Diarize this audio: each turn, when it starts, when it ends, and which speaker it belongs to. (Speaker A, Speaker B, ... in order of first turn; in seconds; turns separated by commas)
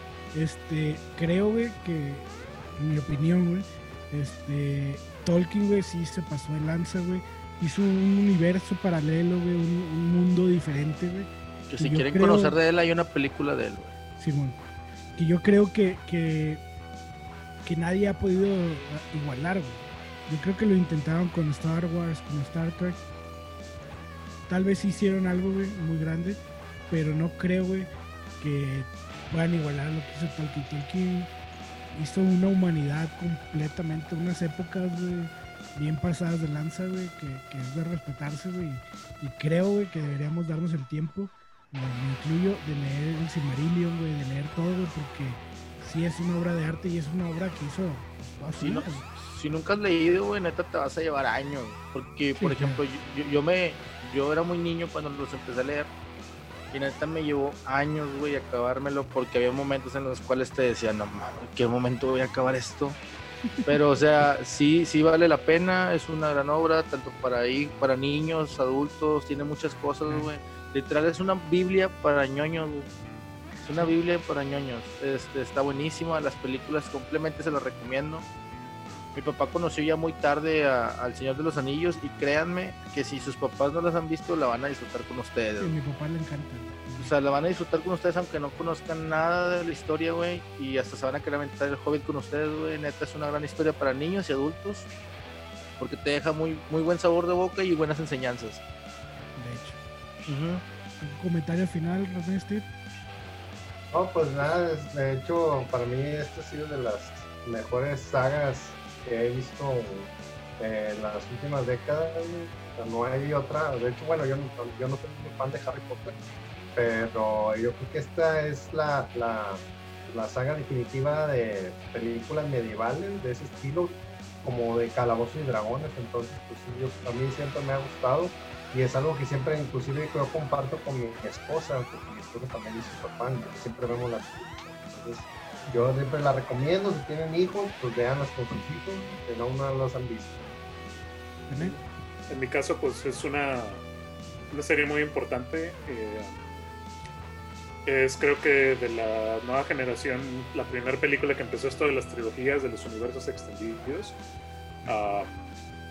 Speaker A: 0.3-12.6, Speaker B: 11.7-13.9, Speaker A: 14.2-14.6, Speaker A: 15.2-16.6, Speaker A: 17.6-23.0, Speaker A: 24.5-27.9, Speaker A: 28.4-31.3, Speaker A: 31.9-49.0, Speaker B: 48.6-55.9, Speaker A: 52.4-52.8, Speaker B: 56.7-63.0, Speaker B: 63.7-72.9, Speaker A: 73.6-74.0, Speaker B: 73.7-78.2, Speaker B: 79.1-85.8, Speaker A: 85.6-87.1, Speaker B: 87.0-94.9, Speaker B: 95.8-98.6, Speaker A: 99.4-99.8, Speaker B: 100.3-100.6, Speaker A: 101.0-102.7, Speaker C: 103.9-116.2, Speaker C: 116.8-140.4, Speaker A: 141.5-141.8, Speaker D: 142.3-143.8, Speaker D: 144.5-146.6, Speaker D: 147.9-154.2, Speaker D: 154.9-155.5